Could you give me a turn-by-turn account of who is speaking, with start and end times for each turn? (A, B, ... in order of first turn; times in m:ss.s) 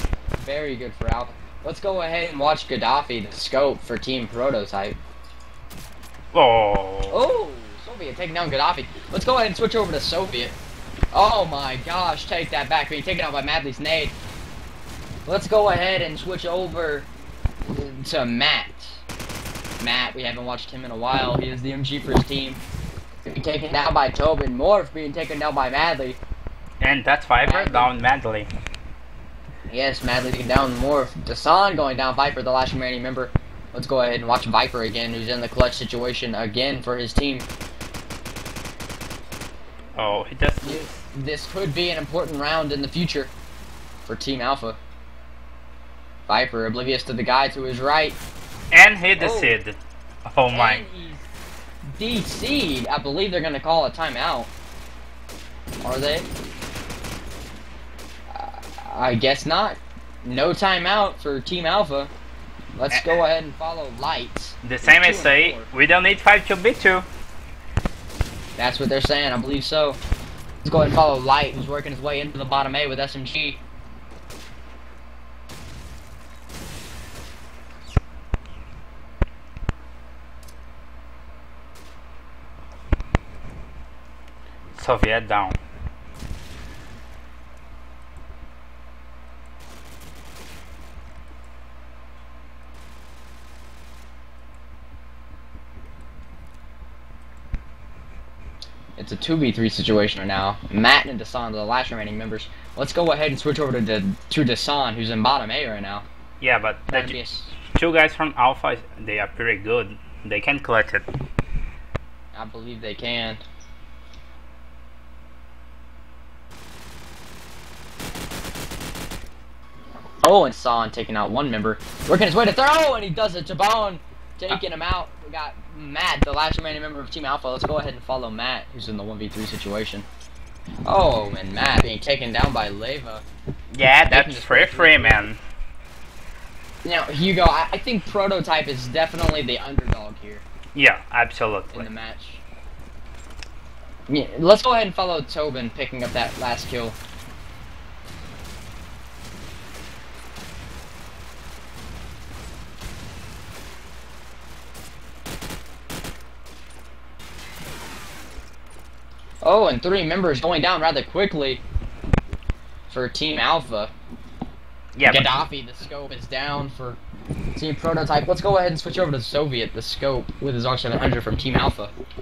0:00.4-0:05.0 A
0:06.3-0:07.2 B
0:07.1-0:10.6 A
0:11.1-0:14.1 A
0:15.3-0:17.1 A
0:17.7-0:19.0 A
0:19.8-0:22.6 A
0:23.3-0:26.2 A
0:26.8-0:28.5 B
0:27.4-0:27.9 A
0:29.7-0:37.5 A
0:40.0-0:40.9 B
0:40.6-0:43.3 A
0:44.1-0:44.8 A
0:46.3-0:48.2 A
0:48.7-0:50.8 B
0:49.2-0:49.6 A
0:50.5-0:51.3 A
0:52.0-0:54.5 A
0:55.8-0:56.3 A
0:58.3-1:02.1 A
1:02.8-1:05.7 A
1:02.9-1:03.2 B
1:04.6-1:07.1 B
1:08.6-1:10.0 A
1:10.6-1:13.6 A
1:24.7-1:25.6 B
1:39.0-1:46.1 A
1:46.4-1:51.1 B
1:46.9-1:47.6 A
1:52.3-1:53.4 A
2:00.2-2:10.1 A
2:10.9-2:13.2 A
2:13.7-2:15.4 B
2:14.1-2:15.3 A
2:16.8-2:20.4 A
2:20.8-2:21.9 B
2:21.7-2:22.4 A
2:24.1-2:27.0 A
2:39.4-2:41.6 A
2:42.9-2:43.9 A
2:45.0-2:45.3 B
2:45.1-2:47.0 A
2:47.6-2:51.9 A